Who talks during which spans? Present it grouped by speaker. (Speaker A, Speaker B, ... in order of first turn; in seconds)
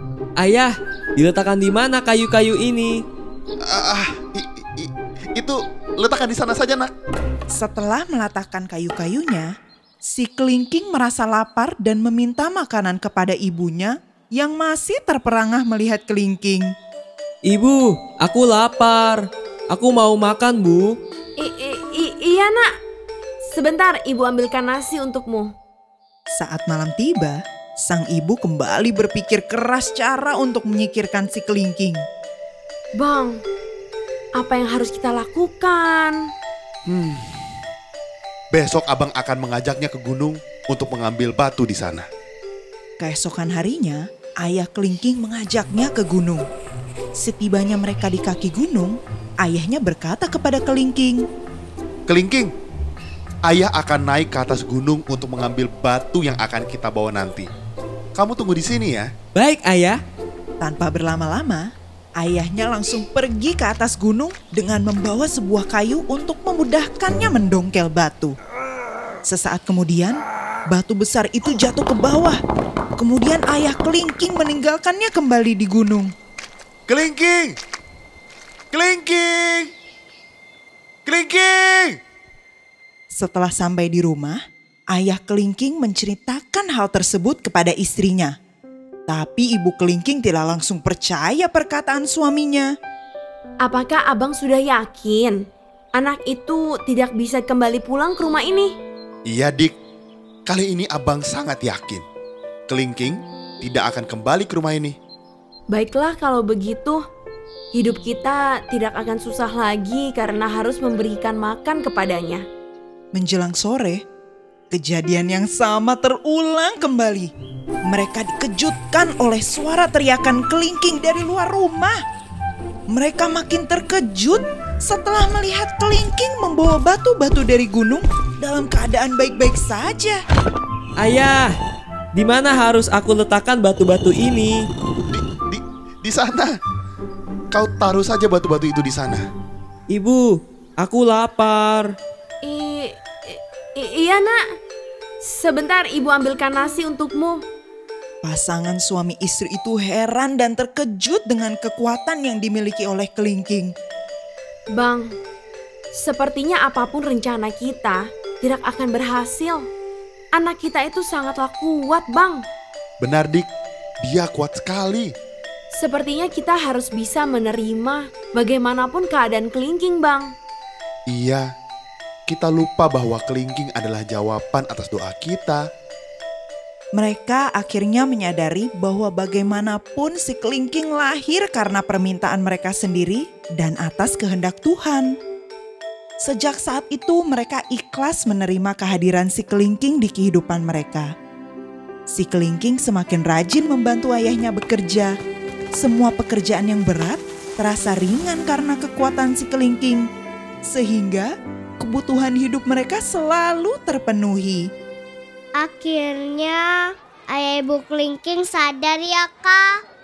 Speaker A: 0.4-3.0, 17.4-21.0, 59.3-60.0, 131.0-131.5, 132.1-134.7, 139.9-141.9
Speaker B: 3.6-6.9, 36.9-37.3, 38.5-42.1, 52.1-52.5, 53.4-57.5, 58.1-59.1, 76.9-77.6, 78.7-79.7, 81.0-82.0, 99.2-99.7, 100.5-102.0, 102.7-105.0, 135.1-136.5, 137.5-139.2, 163.0-163.5, 164.0-165.1, 171.1-171.5, 172.3-175.7
Speaker C: 7.5-9.5, 10.1-16.7, 26.3-32.0, 43.0-46.4, 47.2-51.2, 60.6-61.6, 62.2-68.3, 69.3-72.4, 73.0-76.1, 83.1-84.4, 84.9-88.3, 89.1-92.7, 113.1-114.0, 114.7-117.3, 117.9-122.0, 122.9-130.2, 148.2-153.7, 176.9-185.2, 186.2-191.1, 192.1-195.1, 195.8-200.0, 200.7-201.3, 201.8-204.6
Speaker D: 21.4-22.7, 23.4-25.5, 33.0-33.4, 34.4-36.2, 93.6-95.4, 96.0-98.7, 105.7-107.0, 107.7-112.4, 142.4-144.4, 145.2-147.4, 154.7-155.1, 155.9-159.6, 160.3-162.4, 165.7-170.3
Speaker E: 205.6-206.6, 207.3-209.7